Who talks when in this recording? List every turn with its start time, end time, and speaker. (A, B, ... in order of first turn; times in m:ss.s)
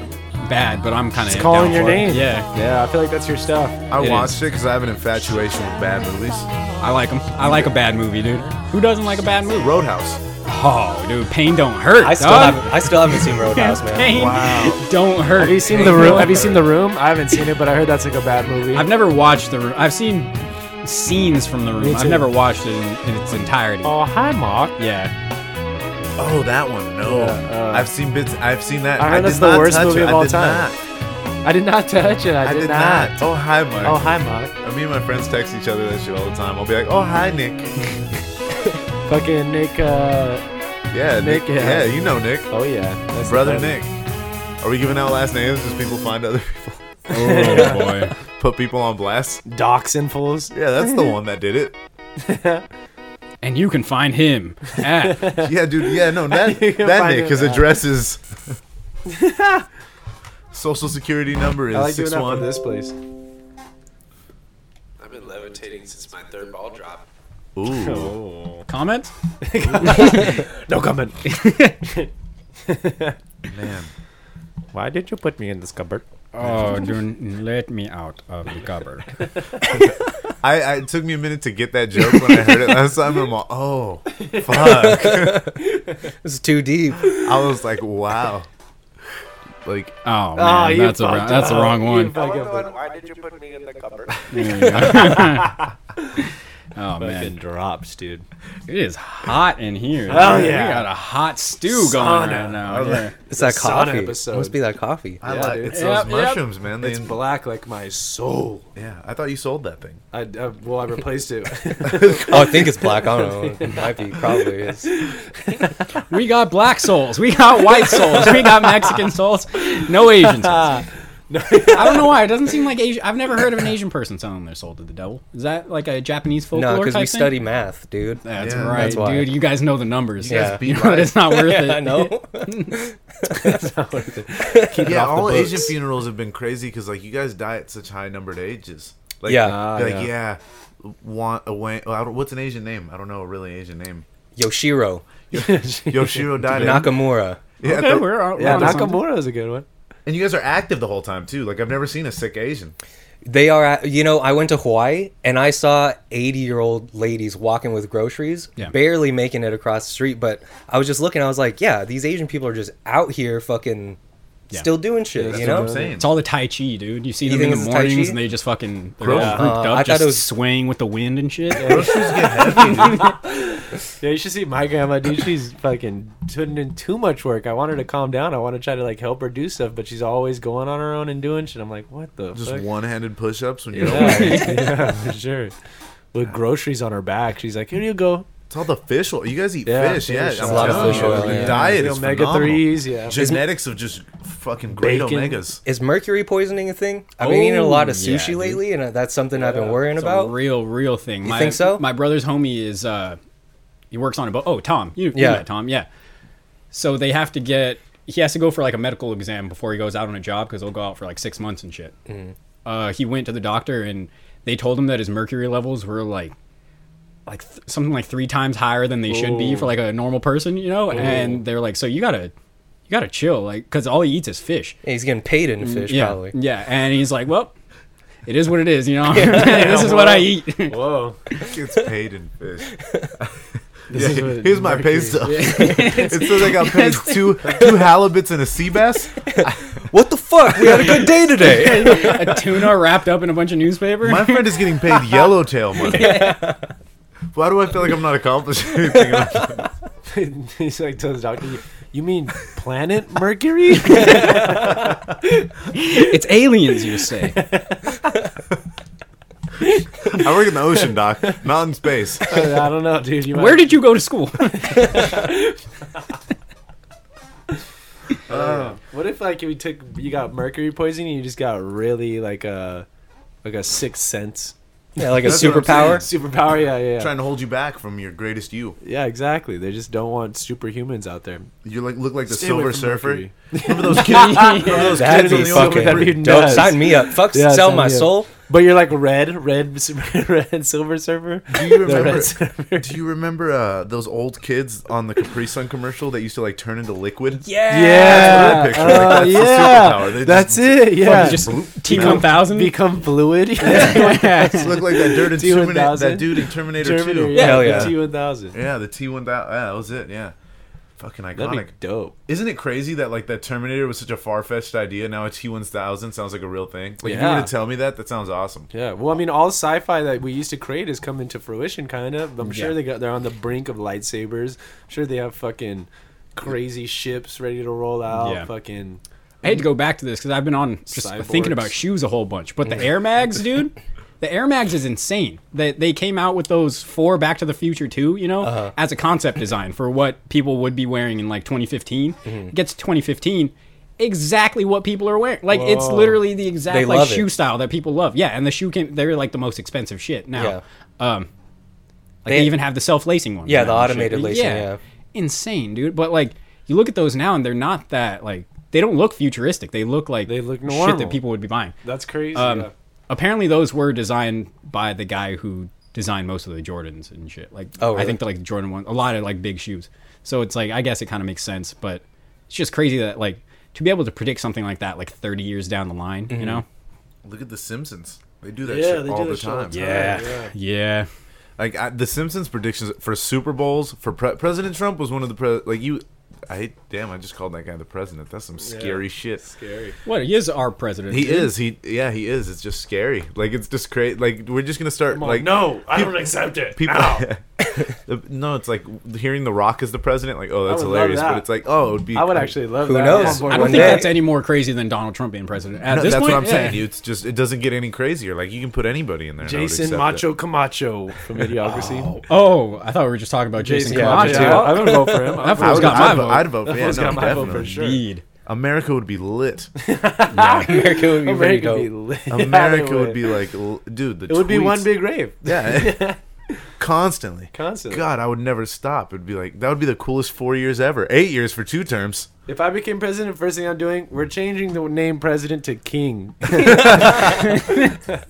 0:00.4-0:02.5 A
0:01.2-0:03.8 B
0:03.9-0:06.5 C
0:04.0-0:04.4 A
0:05.5-0:07.2 D
0:06.8-0:09.8 A
0:07.4-0:07.8 C
0:09.5-0:10.2 C
0:10.4-0:16.6 A
0:12.0-0:14.1 E
0:14.1-0:14.8 C
0:15.3-0:18.9 B
0:15.7-0:16.6 C
0:18.7-0:24.0 A
0:21.8-0:22.3 B
0:23.8-0:24.8 B
0:24.8-0:25.1 A
0:26.2-0:30.8 C
0:27.0-0:27.9 B
0:29.0-0:30.7 B
0:31.4-0:33.3 B
0:32.4-0:37.7 C
0:33.8-0:34.5 B
0:39.0-0:40.4 B
0:40.9-0:42.5 C
0:41.2-0:43.8 B
0:43.2-0:43.9 C
0:44.6-0:47.8 C
0:47.1-0:48.0 B
0:47.1-0:48.1 A
0:48.3-0:49.4 C
0:49.4-0:50.6 B
0:50.5-0:51.7 C
0:52.2-0:52.6 B
0:53.4-0:55.5 A
0:55.1-0:55.5 B
0:55.4-0:58.2 C
0:56.1-0:57.7 B
0:59.1-0:59.6 B
1:00.5-1:02.6 C
1:01.7-1:02.9 B
1:05.0-1:07.0 B
1:07.5-1:08.2 C
1:07.7-1:08.6 B
1:08.7-1:09.1 A
1:09.4-1:11.3 B
1:09.8-1:10.4 A
1:11.2-1:11.8 A
1:12.6-1:13.2 B
1:13.5-1:13.9 C
1:14.7-1:16.0 B
1:16.3-1:19.1 A
1:16.4-1:16.8 C
1:20.4-1:25.6 C
1:24.1-1:25.4 B
1:24.6-1:25.6 E
1:26.2-1:27.2 E
1:27.0-1:28.5 C
1:29.6-1:29.9 C
1:30.0-1:32.2 A
1:30.3-1:32.7 B
1:31.9-1:35.2 D
1:34.3-1:37.3 A
1:34.7-1:35.0 E
1:34.9-1:35.5 B
1:37.0-1:38.2 B
1:38.7-1:43.1 A
1:40.1-1:40.9 B
1:41.7-1:44.6 B
1:42.6-1:43.1 C
1:43.3-1:45.2 E
1:45.2-1:47.2 C
1:45.2-1:46.1 B
1:45.7-1:46.4 A
1:46.8-1:48.7 B
1:48.8-1:50.0 C
1:50.1-1:55.8 B
1:51.8-1:52.7 C
1:52.1-1:55.0 E
1:56.0-2:00.8 A
2:00.4-2:02.3 B
2:01.6-2:07.3 A
2:06.5-2:09.4 E
2:08.2-2:12.8 A
2:08.3-2:09.1 C
2:10.2-2:11.2 C
2:10.3-2:13.6 E
2:13.3-2:15.8 B
2:14.4-2:14.8 E
2:14.8-2:24.0 C
2:19.2-2:19.7 E
2:19.4-2:20.1 B
2:24.4-2:25.1 E
2:25.3-2:26.8 B
2:25.3-2:28.8 C
2:26.5-2:27.4 E
2:27.6-2:29.0 A
2:28.4-2:29.6 B
2:30.0-2:32.7 C
2:33.2-2:44.0 E
2:44.5-2:44.8 A
2:44.5-2:45.7 E
2:45.1-2:46.0 B
2:45.3-2:46.2 C
2:46.0-2:52.0 A
2:47.2-2:48.2 E
2:49.0-2:49.5 C
2:49.1-2:50.3 E
2:49.1-2:49.5 B
2:51.5-3:02.6 B
2:51.6-2:53.1 C
3:02.3-3:04.6 C
3:03.7-3:05.5 B
3:03.8-3:04.8 A
3:06.1-3:08.3 B
3:08.5-3:15.6 C
3:09.6-3:13.3 B
3:10.4-3:11.6 E
3:10.5-3:11.8 A
3:13.1-3:13.5 E
3:14.7-3:15.4 B
3:15.6-3:20.4 E
3:17.2-3:18.6 A
3:19.3-3:19.9 B
3:19.9-3:23.2 A
3:21.2-3:21.9 E
3:23.9-3:25.9 A
3:25.1-3:25.4 E
3:26.7-3:31.9 A
3:32.1-3:32.3 E
3:32.6-3:36.3 A
3:37.2-3:42.3 A
3:39.1-3:39.7 B
3:40.9-3:41.4 B
3:42.9-3:44.8 A
3:44.8-3:46.3 E
3:45.6-3:47.5 A
3:48.2-3:51.6 A
3:49.1-3:51.2 B
3:49.3-3:49.7 E
3:51.4-3:59.8 C
3:52.8-3:53.1 E
3:53.9-3:55.2 B
3:55.2-3:57.6 A
3:55.5-3:56.1 E
3:59.3-4:02.7 E
4:00.5-4:04.8 A
4:04.0-4:06.2 C
4:05.9-4:06.7 E
4:05.9-4:06.4 A
4:07.3-4:09.7 C
4:09.0-4:09.5 E
4:10.1-4:15.2 B
4:15.7-4:17.5 A
4:17.4-4:17.9 B
4:20.0-4:22.2 C
4:22.2-4:23.8 B
4:23.3-4:25.3 A
4:24.6-4:25.6 B
4:28.3-4:28.8 C
4:28.3-4:32.8 B
4:33.4-4:37.1 B
4:35.0-4:36.0 E
4:35.2-4:36.1 C
4:37.0-4:38.8 C
4:38.8-4:41.5 B
4:41.6-4:46.8 C
4:42.2-4:53.0 B
4:43.9-4:45.0 A
4:44.5-4:48.3 E
4:51.5-5:02.4 C
4:57.4-4:59.3 A
4:57.7-5:08.6 B
5:01.0-5:02.8 A
5:03.6-5:04.9 A
5:03.6-5:07.6 C
5:07.3-5:08.0 E
5:07.3-5:08.0 A
5:08.5-5:10.3 C
5:11.0-5:11.7 C
5:11.4-5:12.1 B
5:12.2-5:18.7 C
5:17.0-5:17.5 B
5:18.7-5:29.5 B
5:22.4-5:22.8 A
5:28.1-5:28.5 A
5:29.4-5:51.3 A
5:30.9-5:31.8 B
5:38.4-5:38.7 E
5:45.5-5:46.2 B
5:46.7-5:47.3 E
5:50.3-5:50.6 E
5:52.2-6:01.8 A
5:52.2-5:52.6 E
5:53.4-5:54.8 E
6:00.2-6:01.2 B
6:01.8-6:02.7 B
6:02.3-6:16.6 A
6:07.8-6:08.2 E
6:16.3-6:16.6 E
6:17.2-6:19.8 C
6:18.6-6:20.5 B
6:19.7-6:21.1 A
6:21.6-6:29.4 C
6:28.6-6:30.0 B
6:30.0-6:31.5 A
6:31.1-6:42.6 C
6:35.1-6:37.3 B
6:40.6-6:41.5 B
6:42.1-6:44.2 B
6:42.8-6:44.2 E
6:43.0-6:46.8 A
6:45.9-6:50.3 C
6:49.4-6:52.2 B
6:51.8-6:58.2 A
6:53.6-6:58.0 B
6:53.9-6:55.2 E
6:55.5-6:57.8 C
6:58.4-6:59.7 C
6:59.8-7:03.3 B
7:00.3-7:00.7 A
7:00.4-7:01.9 E
7:02.3-7:06.1 C
7:04.3-7:06.6 B
7:06.8-7:12.3 C
7:07.5-7:08.0 B
7:12.5-7:17.9 B